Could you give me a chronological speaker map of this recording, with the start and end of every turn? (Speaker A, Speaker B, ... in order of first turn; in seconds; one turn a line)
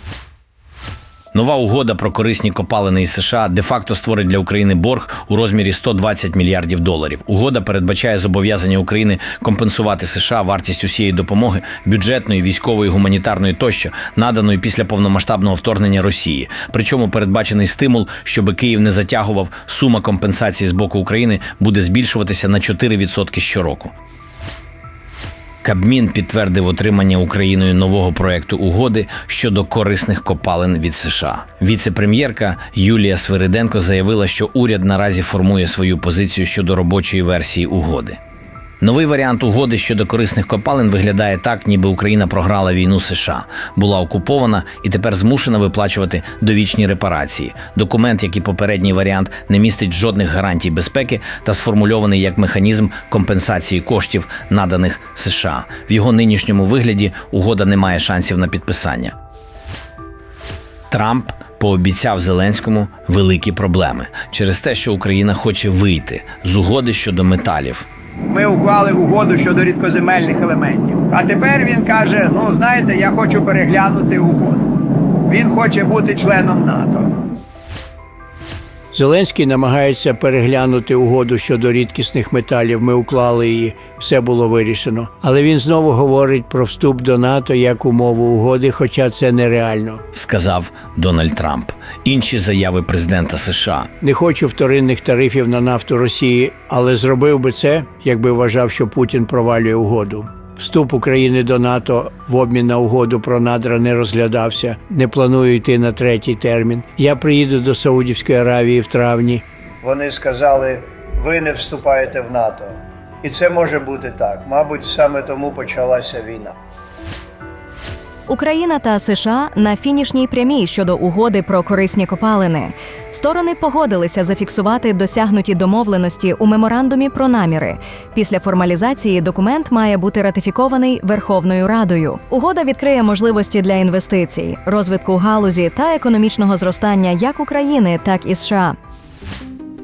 Speaker A: 1.3-23.9
Speaker A: 25.6-38.2
Speaker A: 38.8-59.1
Speaker A: 60.9-67.9
Speaker B: 68.3-77.1
Speaker C: 78.9-90.0
Speaker A: 90.1-93.9
Speaker C: 94.0-109.4
Speaker B: 109.8-116.2
Speaker C: 110.0-110.7
Speaker C: 111.3-112.5
Speaker C: 113.5-116.5
Speaker D: 118.3-138.8